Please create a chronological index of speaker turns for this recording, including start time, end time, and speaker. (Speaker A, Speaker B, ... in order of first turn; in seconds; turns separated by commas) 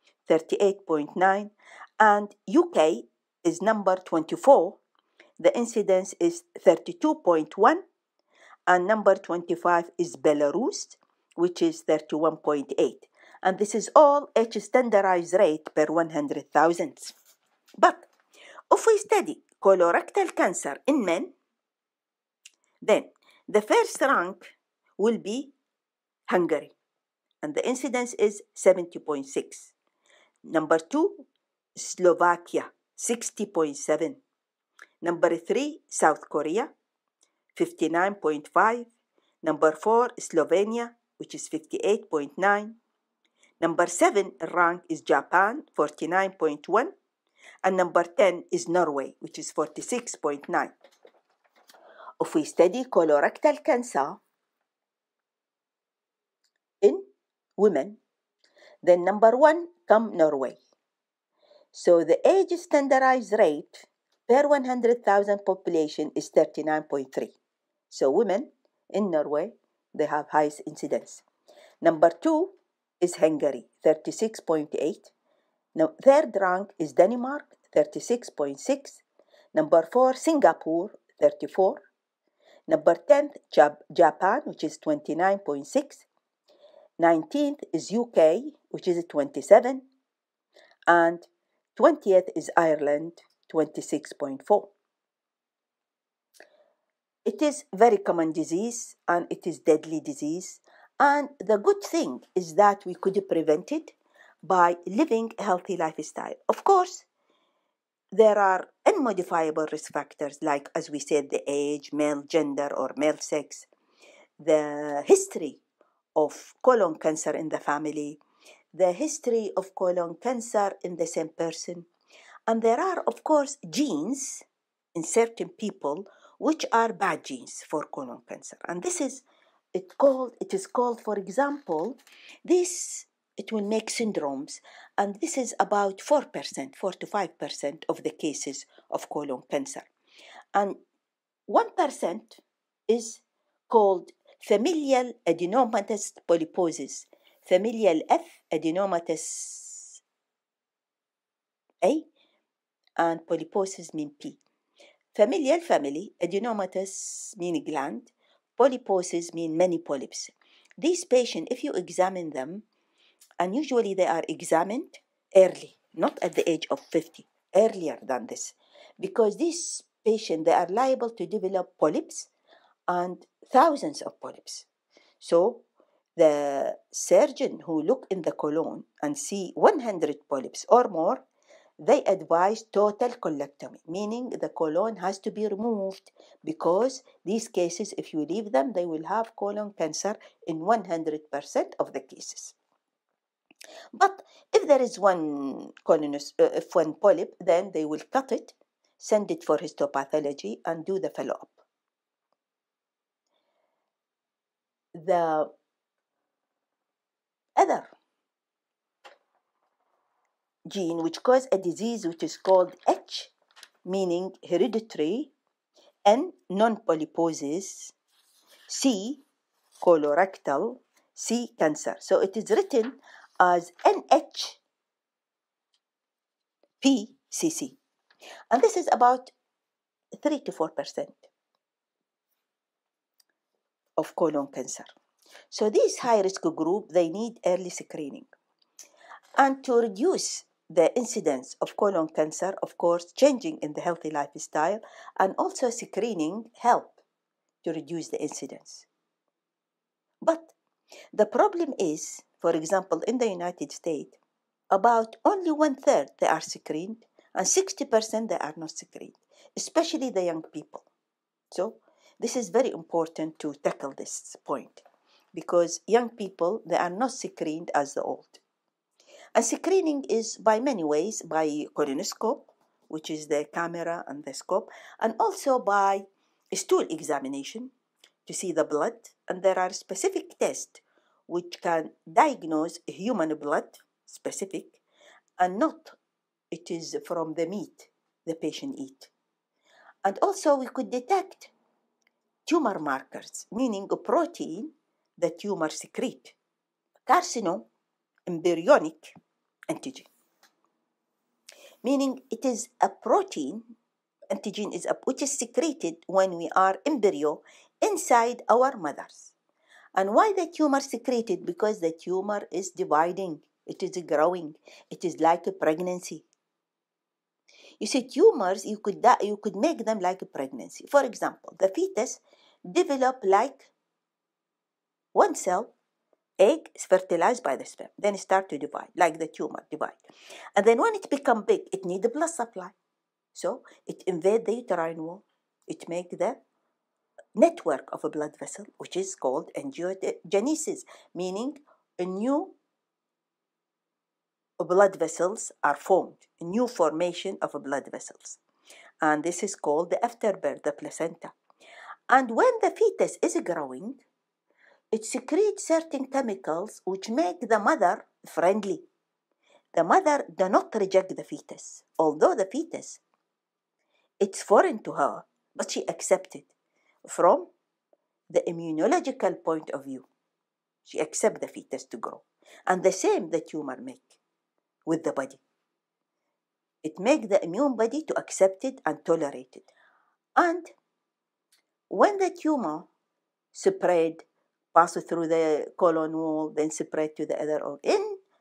Speaker A: 0.2-4.8, Speaker A: 5.4-7.8, Speaker A: 8.7-17.1, Speaker A: 17.8-18.1, Speaker A: 18.7-21.3, Speaker A: 22.8-25.5, Speaker A: 26.3-26.7, Speaker A: 27.4-29.7, Speaker A: 30.4-34.2, Speaker A: 35.0-36.7, Speaker A: 37.5-38.9, Speaker A: 39.4-42.8, Speaker A: 43.6-46.9, Speaker A: 47.6-50.7, Speaker A: 52.2-54.2, Speaker A: 56.8-58.0, Speaker A: 58.8-60.6, Speaker A: 61.7-67.3, Speaker A: 67.9-71.2, Speaker A: 71.8-75.1, Speaker A: 75.7-79.0, Speaker A: 79.5-81.8, Speaker A: 82.7-86.0, Speaker A: 87.0-89.9, Speaker A: 90.9-94.7, Speaker A: 97.2-107.1, Speaker A: 108.1-113.7, Speaker A: 114.4-115.6, Speaker A: 116.2-118.2, Speaker A: 118.7-121.9, Speaker A: 122.5-139.9, Speaker A: 140.5-140.8, Speaker A: 141.5-150.0, Speaker A: 151.8-152.1, Speaker A: 153.0-154.4, Speaker A: 155.1-162.6, Speaker A: 163.4-172.3, Speaker A: 172.9-174.7, Speaker A: 175.2-175.6, Speaker A: 176.2-181.2, Speaker A: 181.8-192.6, Speaker A: 193.9-201.6, Speaker A: 204.9-205.5, Speaker A: 207.6-207.9, Speaker A: 210.7-213.3, Speaker A: 213.8-215.3, Speaker A: 216.0-217.9, Speaker A: 218.7-219.2, Speaker A: 219.8-224.6, Speaker A: 226.8-227.8, Speaker A: 228.5-229.3, Speaker A: 230.2-231.3, Speaker A: 234.0-234.9, Speaker A: 235.5-238.3, Speaker A: 239.3-247.0, Speaker A: 247.6-248.9, Speaker A: 250.2-250.5, Speaker A: 251.1-254.2, Speaker A: 254.7-260.9, Speaker A: 261.5-268.4, Speaker A: 269.3-277.7, Speaker A: 278.2-284.8, Speaker A: 285.4-286.0, Speaker A: 286.5-289.1, Speaker A: 290.0-291.5, Speaker A: 292.4-296.4, Speaker A: 297.1-297.7, Speaker A: 298.3-299.1, Speaker A: 299.7-300.1, Speaker A: 301.8-303.7, Speaker A: 304.3-309.3, Speaker A: 309.9-316.3, Speaker A: 317.8-323.7, Speaker A: 325.1-325.7, Speaker A: 326.4-332.7, Speaker A: 333.3-336.4, Speaker A: 337.4-342.6, Speaker A: 344.6-348.4, Speaker A: 349.0-351.3, Speaker A: 352.1-354.0, Speaker A: 354.9-358.9, Speaker A: 359.7-363.0, Speaker A: 364.2-366.5, Speaker A: 367.0-367.5, Speaker A: 368.3-370.1, Speaker A: 370.8-374.2, Speaker A: 374.9-375.4, Speaker A: 376.8-379.7, Speaker A: 380.4-380.7, Speaker A: 381.9-382.9, Speaker A: 383.5-388.2